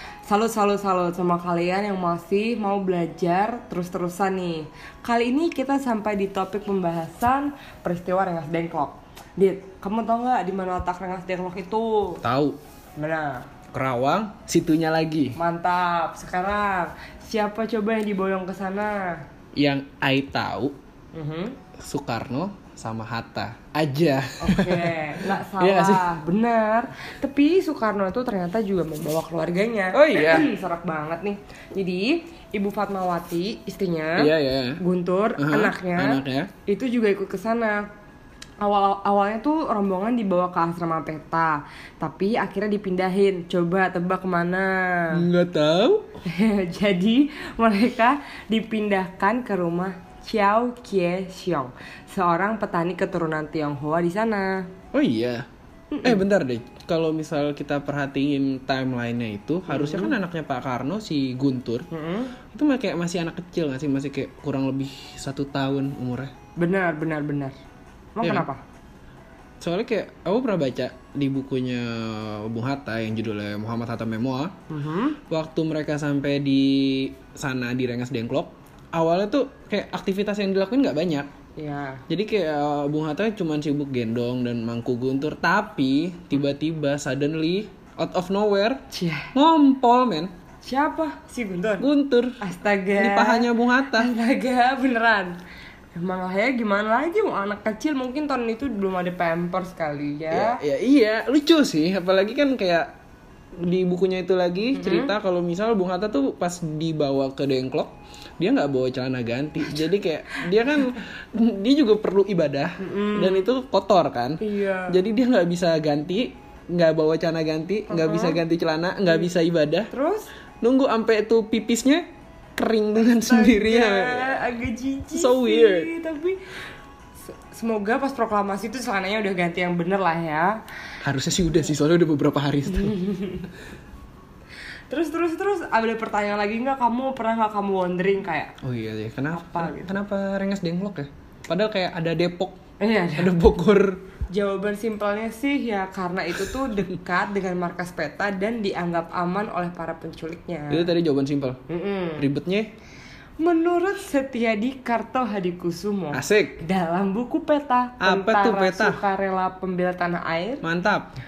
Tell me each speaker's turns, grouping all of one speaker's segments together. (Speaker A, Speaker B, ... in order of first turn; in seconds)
Speaker A: 0.3-12.2, 13.0-13.5, 15.4-19.2, 21.1-21.6, 24.4-37.9, 38.6-45.2, 46.2-54.7, 55.9-56.2, 59.7-60.2, 61.9-62.4, 66.6-67.5, 68.2-68.6, 74.7-75.2, 81.6-82.0, 88.9-89.3, 90.6-91.9, 92.4-95.3, 96.0-100.6, 104.8-105.1, 112.8-113.5, 114.4-115.0, 117.9-118.4, 119.9-120.3, 123.2-126.5, 127.3-130.6, 132.7-133.5, 134.9-138.6, 139.3-140.0, 142.8-143.3, 144.3-150.9, 151.7-152.3, 153.4-160.6
Speaker B: 12.2-12.6, 13.7-15.4, 19.6-20.8, 21.8-26.1, 29.9-30.5, 34.2-34.8, 35.4-36.5, 45.1-46.1, 54.9-55.5, 56.0-61.9, 62.5-66.3, 69.6-74.5, 75.3-81.3, 82.1-88.8, 89.3-90.3, 91.8-92.4, 93.0-94.1, 100.3-102.9, 103.5-119.9, 120.6-122.0, 122.6-124.4, 125.1-125.9, 131.0-133.0, 138.6-142.6, 143.2-144.0, 150.7-151.6, 152.2-152.7, 156.1-156.6, 158.0-159.0, 160.6-161.2